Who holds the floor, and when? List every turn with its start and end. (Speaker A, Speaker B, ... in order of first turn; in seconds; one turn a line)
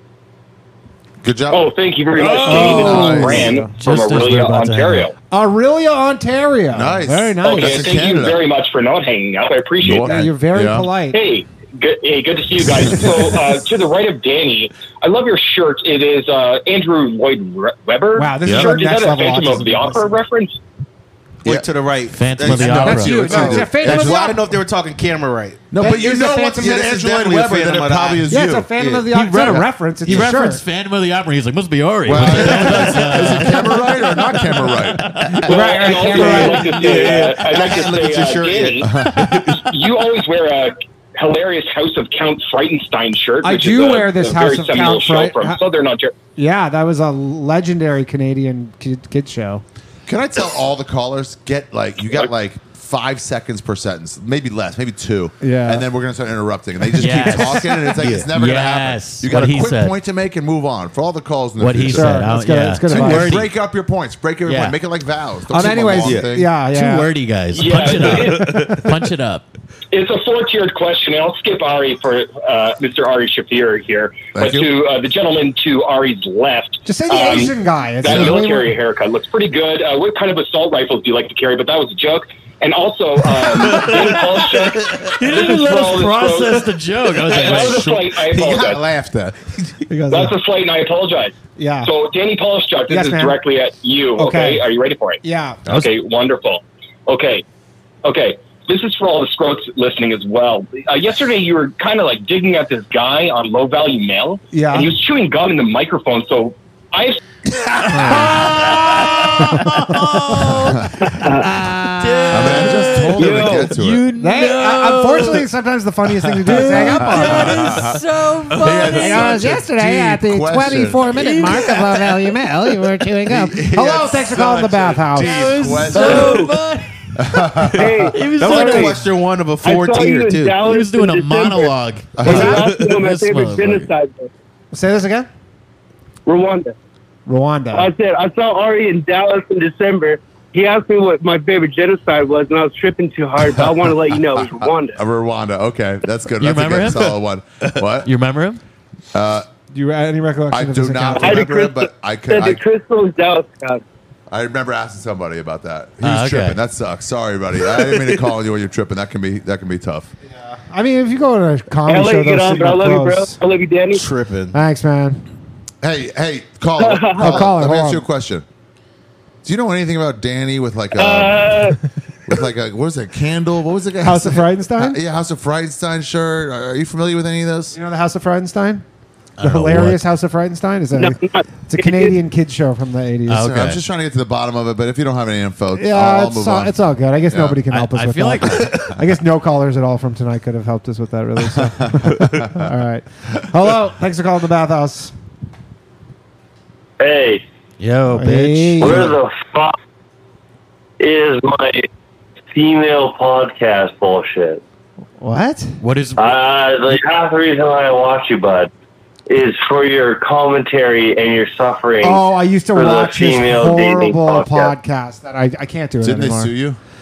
Speaker A: 1.2-1.7
Speaker B: 1.5-5.1
Speaker A: 2.4-3.5
Speaker C: 2.4-3.7
Speaker D: 3.6-5.1
Speaker C: 5.3-8.1
Speaker A: 6.7-8.4
Speaker B: 7.4-10.2
Speaker A: 9.8-10.9
Speaker C: 10.0-11.2
Speaker B: 11.1-20.6
Speaker C: 18.1-20.1
Speaker A: 18.4-18.7
Speaker E: 21.4-29.5
Speaker D: 22.1-23.6
Speaker A: 22.4-24.3
Speaker C: 22.7-24.4
Speaker A: 25.7-28.7
Speaker C: 25.8-26.9
Speaker C: 28.3-30.6
Speaker A: 29.3-29.7
Speaker D: 30.0-33.7
Speaker A: 32.1-35.2
Speaker C: 32.5-32.9
Speaker C: 35.4-37.2
Speaker B: 35.5-38.9
Speaker E: 35.5-39.7
Speaker A: 38.8-39.5
Speaker B: 39.5-46.1
Speaker C: 43.4-45.6
Speaker C: 46.4-49.6
Speaker A: 50.1-62.3
Speaker C: 55.4-55.9
Speaker D: 57.0-60.0
Speaker E: 58.0-58.3
Speaker D: 61.6-63.5
Speaker C: 61.9-63.4
Speaker A: 62.9-66.5
Speaker D: 64.5-64.8
Speaker C: 65.5-67.1
Speaker E: 66.0-66.3
Speaker D: 66.7-69.5
Speaker B: 67.5-68.5
Speaker E: 67.7-68.9
Speaker B: 69.9-88.8
Speaker A: 74.3-74.7
Speaker C: 76.8-78.8
Speaker A: 78.0-78.3
Speaker E: 83.7-84.3
Speaker D: 85.0-88.0
Speaker A: 87.5-87.9
Speaker E: 88.2-89.9
Speaker C: 89.9-90.3
Speaker B: 90.1-97.4
Speaker C: 91.6-91.9
Speaker C: 92.9-93.4
Speaker C: 94.2-94.7
Speaker C: 95.2-95.6
Speaker B: 98.0-107.2
Speaker C: 104.5-104.9
Speaker C: 107.9-108.4
Speaker D: 108.0-115.4
Speaker C: 109.4-110.3
Speaker C: 111.4-112.1
Speaker A: 112.3-114.0
Speaker F: 113.2-113.7
Speaker C: 114.2-117.8
Speaker D: 116.4-119.4
Speaker A: 116.8-118.0
Speaker A: 118.5-121.1
Speaker C: 118.9-125.5
Speaker D: 121.1-122.3
Speaker E: 123.3-124.1
Speaker A: 123.7-126.5
Speaker D: 125.1-127.2
Speaker E: 125.9-126.5
Speaker A: 127.2-127.9
Speaker E: 127.8-130.6
Speaker F: 127.8-129.0
Speaker D: 128.1-128.9
Speaker F: 129.6-131.7
Speaker D: 130.6-133.9
Speaker A: 132.2-132.5
Speaker C: 132.2-132.7
Speaker F: 132.3-134.3
Speaker E: 132.3-132.8
Speaker C: 134.7-135.3
Speaker F: 136.2-136.7
Speaker C: 137.3-137.9
Speaker F: 137.7-145.0
Speaker A: 144.3-148.1
Speaker D: 146.4-147.1
Speaker D: 148.0-148.6
Speaker A: 149.1-149.5
Speaker C: 149.7-151.6
Speaker A: 150.5-152.6
Speaker F: 151.2-153.8
Speaker A: 154.3-160.1
Speaker D: 156.0-156.6
Speaker C: 160.7-163.4
Speaker F: 161.8-164.0
Speaker E: 163.9-164.6
Speaker C: 164.5-165.2
Speaker A: 165.8-168.4
Speaker F: 166.8-167.4
Speaker C: 167.2-168.1
Speaker A: 169.4-171.7
Speaker F: 170.9-171.8
Speaker A: 172.3-177.8
Speaker C: 174.0-175.0
Speaker C: 177.7-178.8
Speaker D: 179.4-180.0
Speaker C: 179.4-183.5
Speaker F: 181.0-182.1
Speaker D: 183.3-183.8
Speaker A: 183.4-187.6
Speaker C: 185.8-195.1
Speaker D: 187.7-188.8
Speaker A: 191.6-192.6
Speaker G: 197.0-197.4
Speaker D: 197.8-199.1
Speaker C: 198.1-199.1
Speaker G: 198.8-199.7
Speaker G: 201.0-201.9
Speaker G: 202.5-204.6
Speaker C: 205.2-205.7
Speaker D: 205.8-206.3
Speaker G: 206.2-208.7
Speaker G: 209.3-212.2
Speaker C: 212.0-216.5
Speaker G: 212.7-214.7
Speaker A: 216.0-216.8